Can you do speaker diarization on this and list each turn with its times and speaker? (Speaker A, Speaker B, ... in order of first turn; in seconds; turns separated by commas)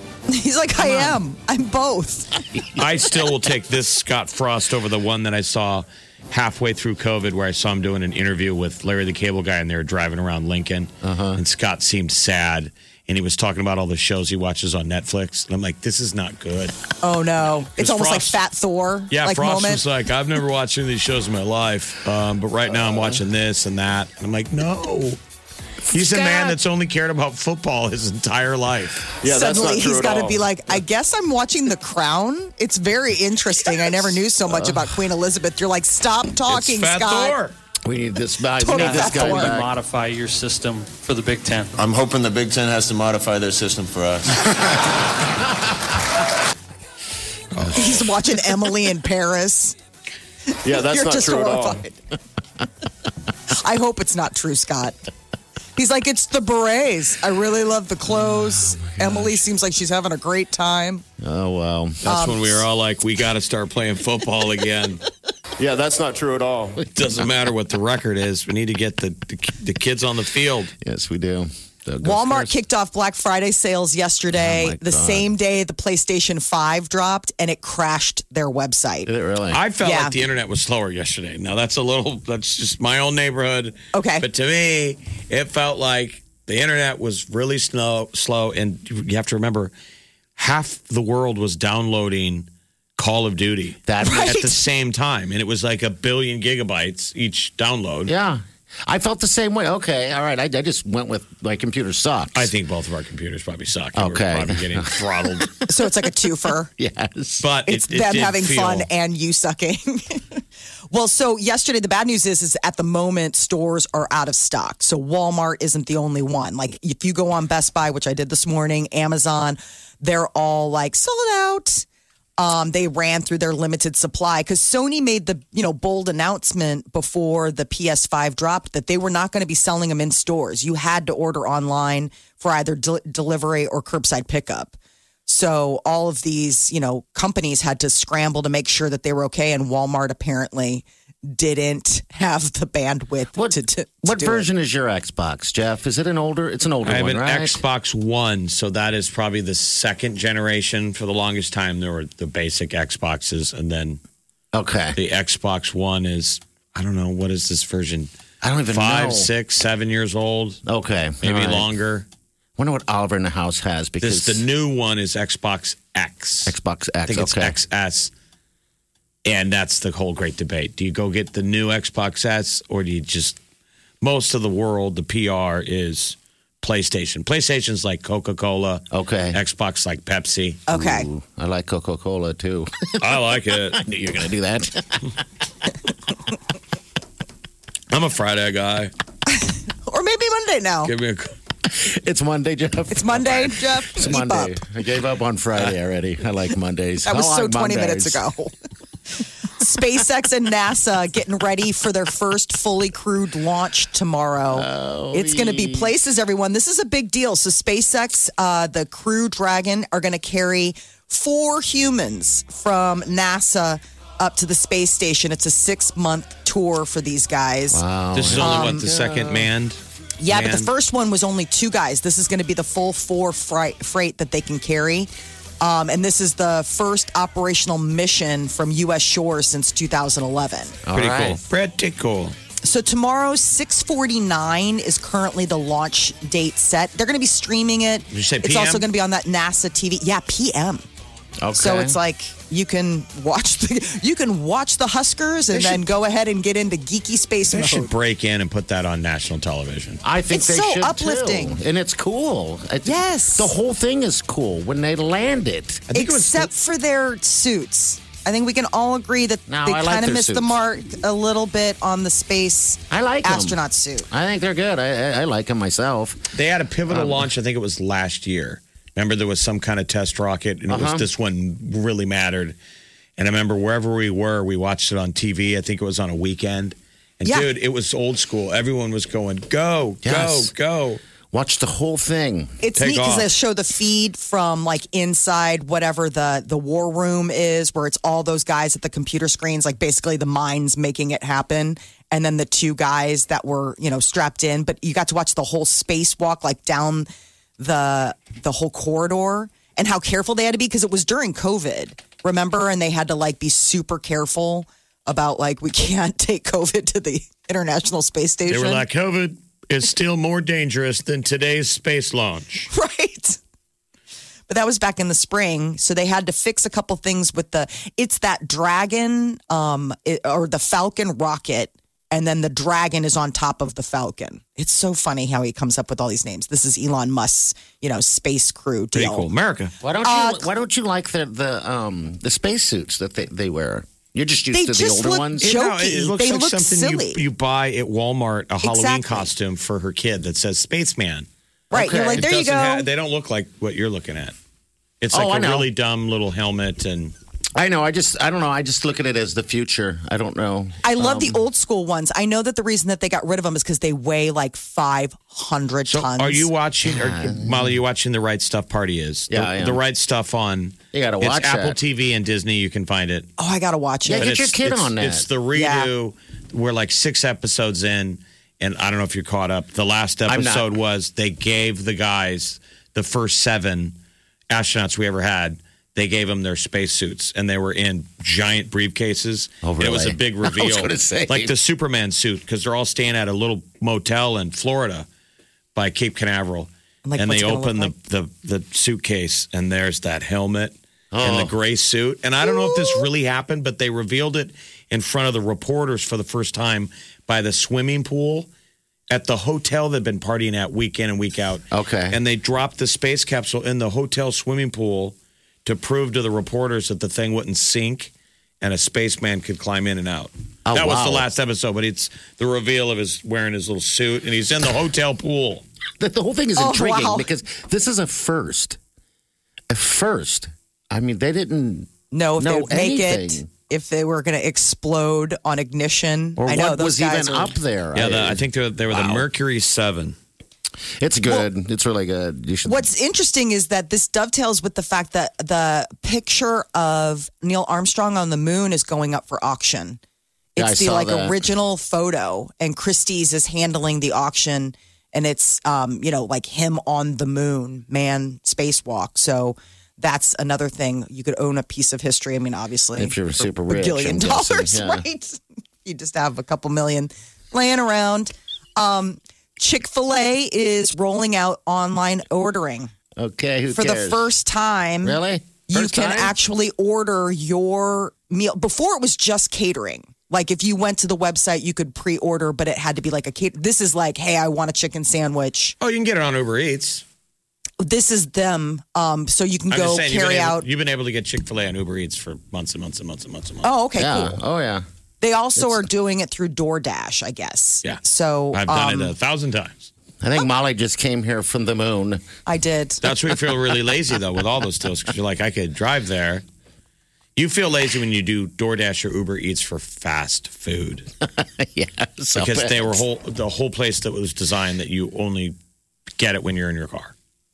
Speaker A: 0.3-2.3, Speaker B: 0.8-1.2, Speaker B: 2.5-2.9, Speaker C: 2.8-16.8, Speaker B: 11.0-11.4, Speaker A: 17.0-19.8, Speaker C: 17.8-18.4, Speaker C: 19.1-25.2, Speaker B: 22.8-23.2, Speaker C: 25.9-29.2, Speaker B: 25.9-26.6, Speaker B: 29.2-30.4, Speaker A: 29.2-37.4, Speaker B: 34.5-34.9, Speaker C: 36.5-37.5, Speaker B: 37.9-39.7, Speaker A: 38.6-39.6, Speaker D: 38.7-41.8, Speaker E: 41.8-44.6, Speaker A: 47.7-49.8, Speaker B: 50.6-51.8, Speaker A: 50.7-52.0, Speaker A: 53.5-55.0, Speaker A: 55.8-61.0, Speaker B: 58.1-59.4, Speaker B: 61.2-62.1, Speaker C: 62.0-65.0, Speaker A: 62.0-62.6, Speaker B: 65.6-67.3, Speaker C: 66.9-70.7, Speaker B: 70.8-72.5, Speaker A: 72.0-79.1, Speaker B: 74.3-75.3, Speaker B: 79.1-79.6, Speaker C: 79.5-89.7, Speaker A: 79.8-80.2, Speaker A: 83.9-84.3, Speaker C: 90.4-98.1, Speaker B: 93.9-94.5, Speaker A: 94.0-94.5, Speaker B: 98.1-102.5, Speaker C: 102.3-105.5, Speaker B: 104.0-105.5, Speaker A: 105.7-106.7, Speaker B: 106.8-107.5, Speaker C: 107.4-108.9, Speaker A: 107.7-110.2, Speaker A: 110.9-121.9, Speaker A: 122.4-134.8, Speaker A: 135.3-144.5, Speaker B: 143.3-147.6, Speaker C: 146.8-154.0, Speaker B: 154.5-155.0, Speaker C: 155.0-158.1, Speaker B: 158.4-159.3, Speaker C: 158.7-160.6, Speaker B: 160.7-161.7, Speaker C: 161.2-162.1, Speaker B: 162.6-164.4, Speaker C: 164.0-166.5, Speaker B: 166.5-167.6, Speaker C: 167.1-168.1, Speaker C: 169.2-173.4, Speaker C: 174.0-180.6, Speaker B: 178.9-179.4, Speaker A: 180.7-181.1, Speaker B: 180.7-185.1, Speaker C: 183.0-183.8, Speaker C: 187.9-188.9, Speaker A: 189.3-190.9, Speaker C: 190.8-191.3, Speaker B: 191.7-198.2, Speaker A: 192.9-194.6, Speaker A: 197.1-198.5, Speaker A: 199.6-217.8, Speaker B: 204.5-205.9, Speaker B: 217.7-219.5, Speaker C: 218.2-219.8, Speaker A: 218.4-218.8, Speaker A: 220.2-225.1, Speaker C: 220.3-220.7, Speaker A: 225.6-230.8, Speaker B: 230.8-231.4, Speaker C: 230.9-232.3, Speaker A: 232.6-240.8, Speaker C: 238.1-238.9, Speaker B: 241.4-242.0, Speaker A: 241.6-247.9, Speaker B: 245.5-245.8, Speaker C: 247.5-250.0, Speaker B: 250.0-255.9, Speaker A: 250.3-251.6, Speaker A: 252.8-253.5, Speaker C: 255.9-256.5, Speaker A: 255.9-264.1, Speaker B: 259.5-260.6, Speaker B: 262.9-266.2, Speaker C: 266.3-272.6, Speaker B: 266.9-267.3, Speaker B: 270.7-271.1, Speaker C: 273.2-281.0, Speaker B: 280.0-280.5, Speaker B: 281.3-282.6, Speaker A: 282.6-297.1, Speaker C: 282.8-283.3, Speaker A: 297.6-308.8, Speaker C: 308.5-312.7, Speaker A: 312.7-313.4, Speaker A: 314.5-329.3, Speaker C: 328.9-329.7, Speaker B: 329.8-335.5, Speaker A: 330.0-330.5, Speaker A: 334.5-337.2, Speaker C: 335.4-341.3, Speaker A: 338.6-339.2, Speaker B: 341.7-342.3, Speaker A: 341.7-342.9, Speaker C: 342.0-344.3, Speaker C: 345.0-347.1, Speaker B: 345.1-345.7, Speaker B: 347.6-351.4, Speaker A: 350.8-356.5, Speaker C: 355.9-363.3, Speaker B: 356.8-357.8, Speaker B: 359.3-359.8, Speaker B: 360.9-361.8, Speaker A: 363.4-364.3, Speaker B: 364.1-365.3, Speaker C: 364.1-373.9, Speaker A: 365.6-365.9, Speaker B: 370.3-370.7, Speaker C: 374.5-385.1, Speaker B: 379.6-381.5, Speaker C: 385.8-398.5, Speaker A: 387.1-387.9, Speaker B: 391.1-391.6, Speaker A: 392.4-393.0, Speaker C: 399.1-415.6, Speaker B: 401.7-402.2, Speaker B: 410.7-411.3, Speaker B: 416.0-418.8, Speaker A: 416.6-417.3, Speaker B: 419.7-423.5, Speaker A: 422.1-427.6, Speaker B: 426.4-429.3, Speaker C: 427.9-430.2, Speaker B: 431.0-432.9, Speaker A: 432.6-440.0, Speaker A: 440.6-462.9, Speaker B: 440.6-441.4, Speaker B: 453.0-455.1, Speaker B: 463.2-464.2, Speaker A: 463.7-475.8, Speaker B: 465.0-466.4, Speaker C: 475.8-477.0, Speaker A: 477.8-480.6, Speaker C: 479.7-483.7, Speaker A: 483.6-484.4, Speaker B: 484.0-484.9, Speaker A: 485.2-489.1, Speaker B: 485.6-485.9, Speaker C: 488.5-489.9, Speaker B: 490.2-492.2, Speaker A: 492.5-493.0, Speaker C: 493.0-496.4, Speaker C: 497.4-501.1, Speaker B: 501.2-503.0, Speaker C: 502.4-505.6, Speaker C: 506.2-507.1